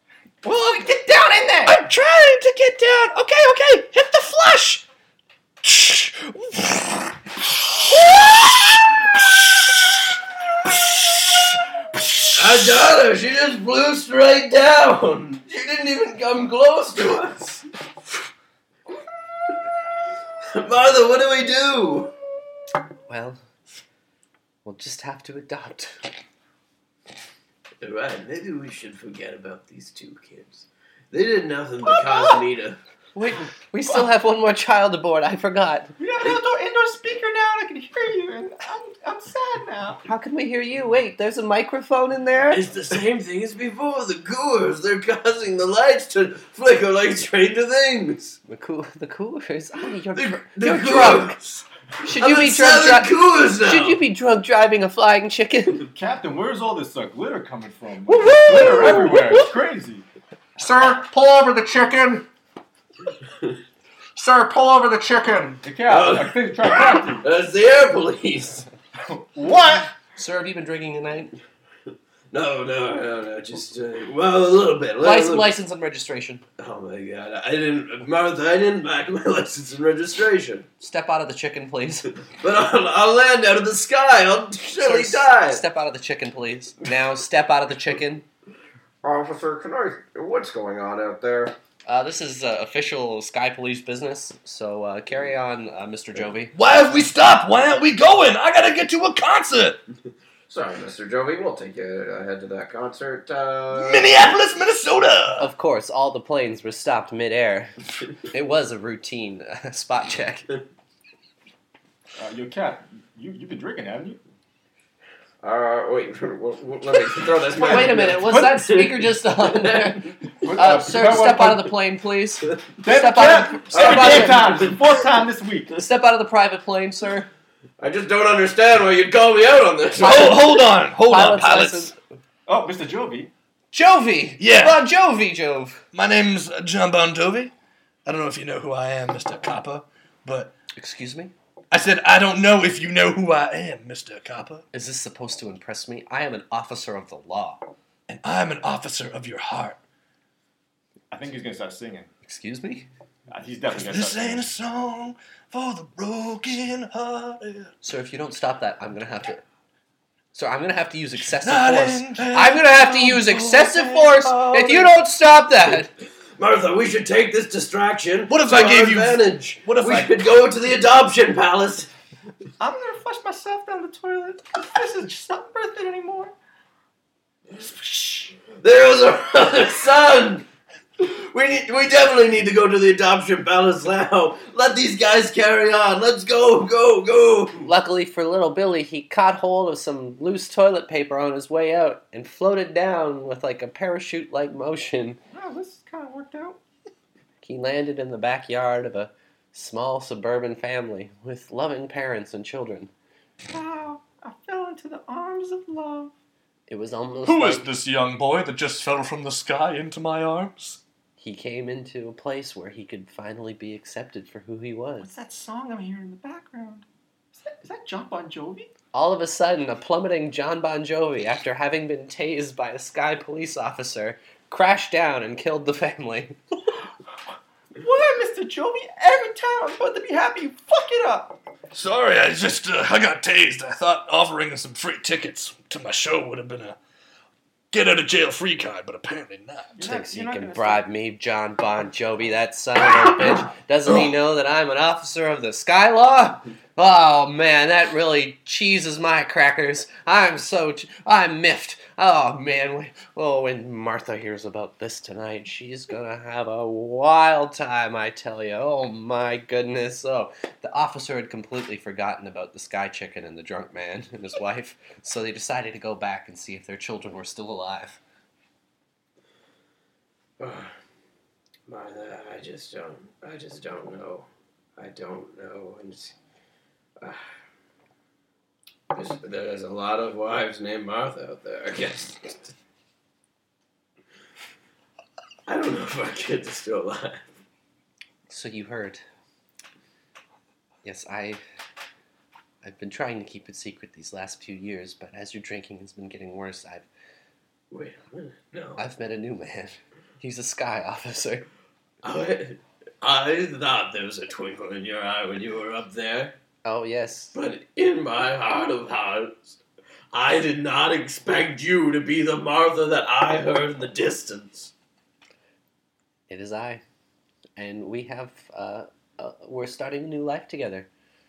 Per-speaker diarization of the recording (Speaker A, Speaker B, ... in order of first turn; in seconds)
Speaker A: 0.4-1.8, 36.0-40.0, 55.9-60.0, 65.6-67.2, 69.1-69.9, 112.2-114.2, 117.5-118.8, 120.4-121.7, 122.8-125.7, 132.5-133.3, 151.1-152.1, 153.3-154.5, 172.6-176.3, 195.3-196.6, 203.5-206.1, 215.0-218.7, 227.8-231.4, 239.8-240.8
Speaker B: 1.6-4.8, 5.6-7.1, 7.8-9.0
Speaker C: 12.3-17.6, 20.5-22.1, 27.8-32.8, 42.5-48.4, 50.1-51.6, 52.1-54.0, 58.4-59.2, 65.9-68.7, 72.3-75.5, 76.6-80.7, 82.3-85.6, 89.0-91.5, 100.5-104.1, 115.4-118.9, 119.4-119.8, 123.7-124.9, 127.8-130.6, 166.4-171.9, 177.8-180.4, 181.0-187.7, 270.4-270.7, 271.7-276.1, 278.9-282.5, 285.5-287.3, 297.7-298.8, 302.0-306.3, 307.3-309.6, 310.1-314.7
Speaker D: 23.1-23.4, 24.6-25.9, 33.1-36.0, 40.0-42.6, 48.5-51.4, 52.0-55.9, 58.1-59.5, 70.2-71.4, 75.0-76.4, 80.8-82.1, 84.8-88.2, 91.9-96.5, 105.4-110.5, 117.5-124.6, 125.8-127.3, 131.1-131.9, 133.7-135.8, 140.8-141.3, 144.7-147.6, 152.2-152.9, 157.8-159.4, 160.3-165.9, 187.6-195.2, 197.4-202.9, 206.7-207.7, 211.2-215.1, 218.9-226.4, 239.8-268.0, 288.3-289.0, 290.8-291.4, 292.6-296.9, 298.8-301.4, 306.6-307.3, 316.3-316.8, 317.6-320.9
Speaker E: 60.6-62.3, 64.2-65.6, 69.5-69.8
Speaker F: 96.5-99.8, 103.7-105.5, 130.0-131.9, 134.4-134.8, 135.9-137.5, 138.1-140.5, 141.7-144.7, 148.1-149.8, 153.7-157.7, 161.4-164.9, 168.3-170.2, 207.2-210.8, 231.7-236.8, 237.7-239.8